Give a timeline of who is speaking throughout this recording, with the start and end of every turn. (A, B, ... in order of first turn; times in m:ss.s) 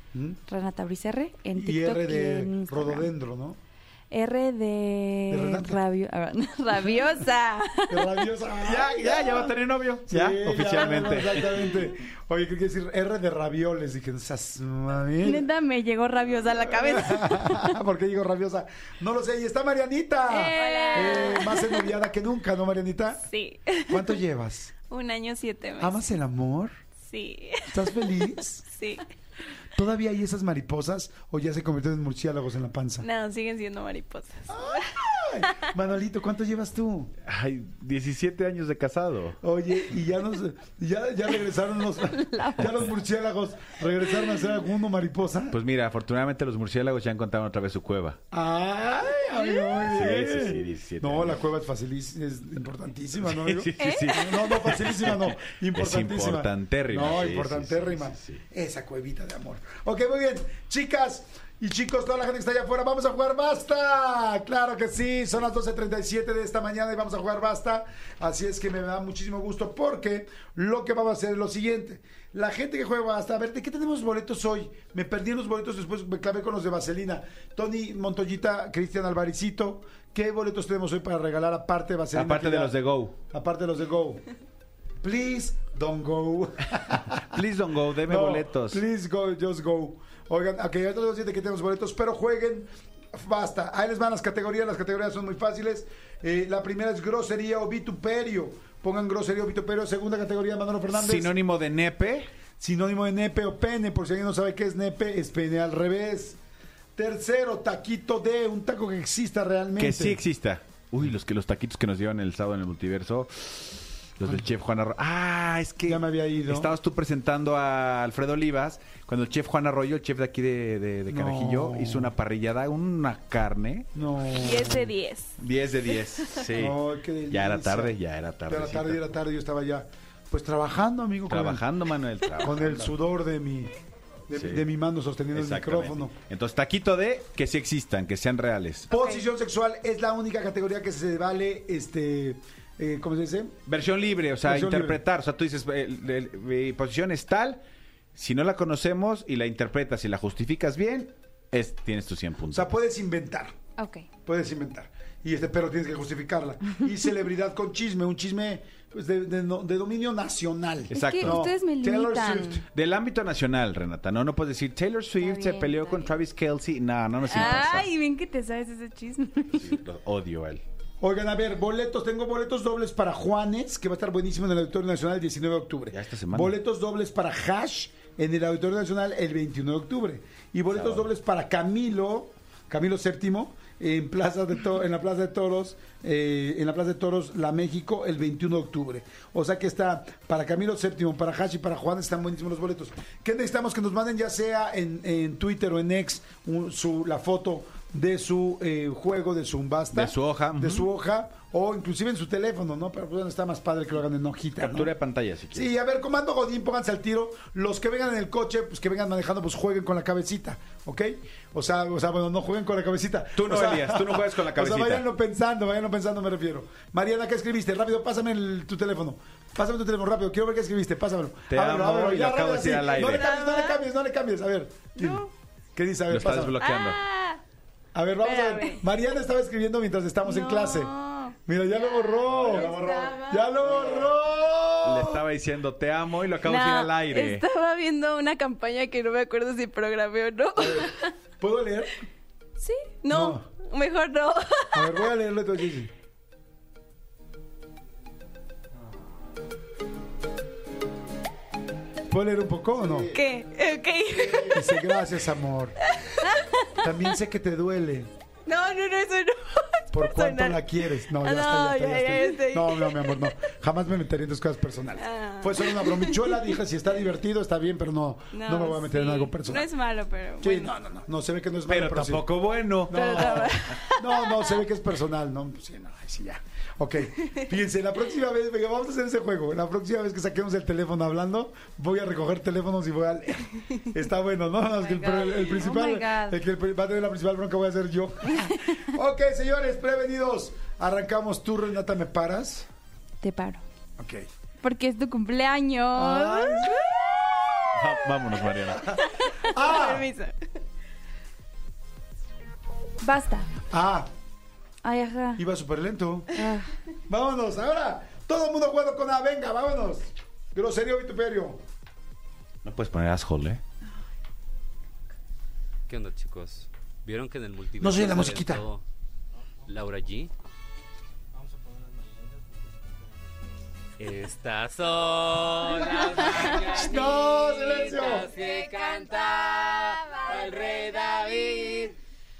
0:00.1-0:00.4 A
0:00.5-0:03.1 B
0:01.6-0:03.6 A
0:04.1-0:08.3 B
0:05.3-0:05.8 A
0:07.9-0:09.5 A
0:08.6-0:11.7 C
0:10.1-0:15.5 A
0:15.2-0:17.7 B
0:16.6-0:23.3 A
0:20.3-0:21.8 D
0:20.4-0:21.6 B
0:23.3-0:24.1 D
0:23.9-0:24.7 A
0:24.9-0:26.0 D
0:25.8-0:26.8 A
0:27.0-0:28.2 D
0:27.7-0:28.7 A
0:28.7-0:29.0 D
0:29.7-0:33.1 A
0:33.0-0:35.7 D
0:34.5-0:37.1 A
0:37.2-0:39.4 C
0:39.4-0:45.6 A
0:42.2-0:42.7 B
0:45.5-0:48.2 C
0:48.3-1:24.2 A
0:49.7-0:51.4 C
0:53.2-0:58.4 C
0:53.8-0:54.1 D
1:22.1-1:23.1 C
1:25.0-1:27.4 A
1:27.2-1:28.8 C
1:28.0-1:41.3 A
1:40.9-1:42.3 C
1:42.6-1:46.4 A
1:47.0-1:50.2 A
1:49.8-2:03.9 C
1:55.8-1:56.8 A
2:01.1-2:02.1 A
2:03.9-2:04.9 A
2:04.3-2:05.4 D
2:05.4-2:06.8 C
2:06.5-2:11.6 A
2:07.3-2:09.0 C
2:11.3-2:12.9 C
2:12.4-2:13.7 A
2:14.3-2:16.2 A
2:14.3-2:14.6 C
2:15.3-2:18.9 C
2:18.9-2:23.6 A
2:18.9-2:19.2 B
2:23.7-2:27.6 C
2:24.4-2:25.0 A
2:28.1-2:32.7 C
2:32.5-2:33.6 A
2:33.8-2:34.1 B
2:34.2-2:42.6 A
2:40.9-2:41.4 C
2:40.9-2:42.6 B
2:42.7-2:47.9 C
2:45.2-2:46.1 B
2:47.3-2:49.8 B
2:49.5-2:50.6 C
2:51.0-3:24.9 A
2:55.9-2:56.5 C
3:00.7-3:01.0 C
3:19.9-3:20.9 C
3:24.6-3:25.7 C
3:25.5-3:46.6 A
3:33.3-3:35.0 C
3:41.5-3:43.3 C
3:43.0-3:43.8 D
3:45.0-3:45.3 D
3:46.1-3:47.0 C
3:46.6-3:47.4 D
3:47.9-3:50.9 A
3:48.2-3:48.8 D
3:50.2-3:51.4 D
3:51.4-3:55.2 A
3:52.2-3:54.1 C
3:52.4-3:53.6 D
3:54.8-3:57.4 C
3:56.4-4:01.1 D
4:00.6-4:01.9 A
4:02.6-4:05.1 D
4:03.1-4:03.4 A
4:04.7-4:05.9 A
4:12.1-4:13.2 A
4:13.0-4:14.9 D
4:14.3-4:15.8 A
4:15.9-4:16.9 D
4:16.8-4:18.1 A
4:18.4-4:23.4 D
4:19.9-4:29.7 A
4:25.0-4:26.6 D
4:28.3-4:30.7 D
4:30.4-4:32.3 A
4:31.7-4:33.6 C
4:32.8-4:52.7 A
4:32.9-4:34.6 D
4:44.9-4:46.4 B
4:53.2-4:53.6 B
4:54.0-4:54.3 A
4:54.6-4:56.7 B
4:55.9-4:57.9 A
4:57.7-4:59.0 C
4:58.7-5:00.1 A
4:58.9-5:00.5 D
5:03.0-5:03.5 B
5:03.7-5:04.1 A
5:04.8-5:05.4 B
5:05.4-5:06.4 A
5:06.3-5:06.7 B
5:07.1-5:11.6 A
5:12.6-5:13.6 C
5:15.9-5:18.8 E
5:17.8-5:18.6 A
5:19.6-5:20.3 E
5:24.0-5:31.9 E
5:26.6-5:28.3 A